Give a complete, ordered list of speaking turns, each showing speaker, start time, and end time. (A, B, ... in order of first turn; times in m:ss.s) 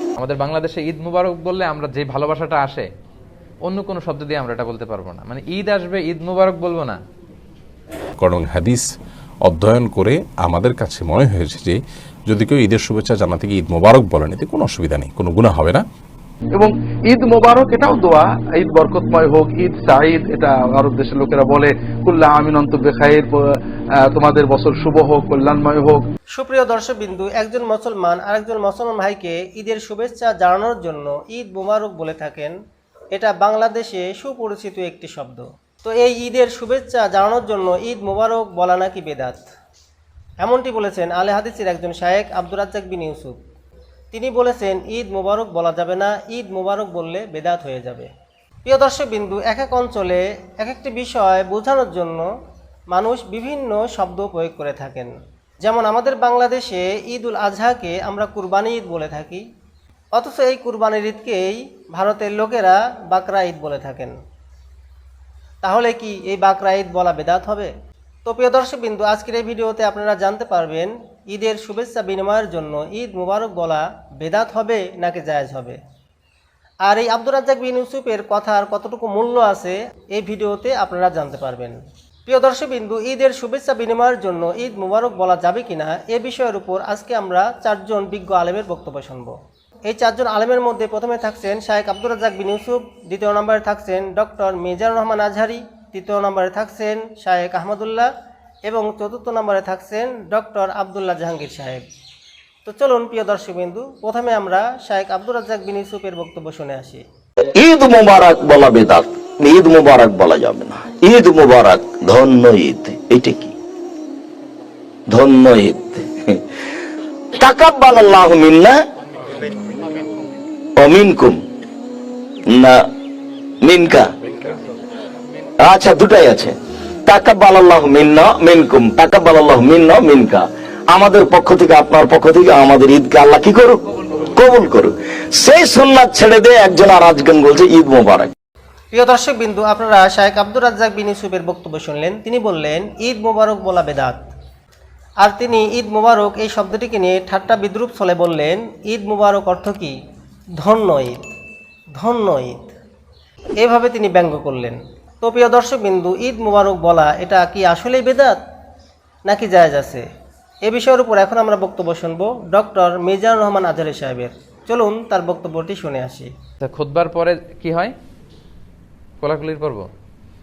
0:00.2-0:02.9 A
0:03.6-0:07.0 A
0:08.2-0:08.8 B
0:09.4-0:15.8 B
0:16.6-0:23.4 C
0:24.0-0:26.0 C
0:26.4-0:32.5 D
0:33.1-0:39.4 D
0:40.4-0:43.4 D
0:44.1-0:48.1 D
0:48.6-0:52.3 D
0:52.9-0:59.4 D
1:00.1-1:04.1 D
1:05.6-1:07.7 D
1:08.2-1:15.8 D
1:16.8-1:29.3 D
1:29.9-1:38.1 D
1:38.6-1:41.8 D
1:42.6-1:47.0 D
1:47.5-1:53.5 E
1:55.1-1:56.4 E
1:57.3-1:58.8 E
2:00.8-2:01.4 E
2:02.5-2:02.8 E
2:03.6-2:04.1 E
2:05.6-2:06.5 E
2:07.1-2:13.8 E
2:14.3-2:18.3 E
2:18.9-2:24.2 D
2:25.2-2:30.0 D
2:30.6-2:31.2 D
2:32.0-2:32.7 D
2:33.6-2:38.4 D
2:39.2-2:40.0 D
2:40.6-2:46.3 D
2:46.6-2:47.9 A
2:49.2-2:49.9 A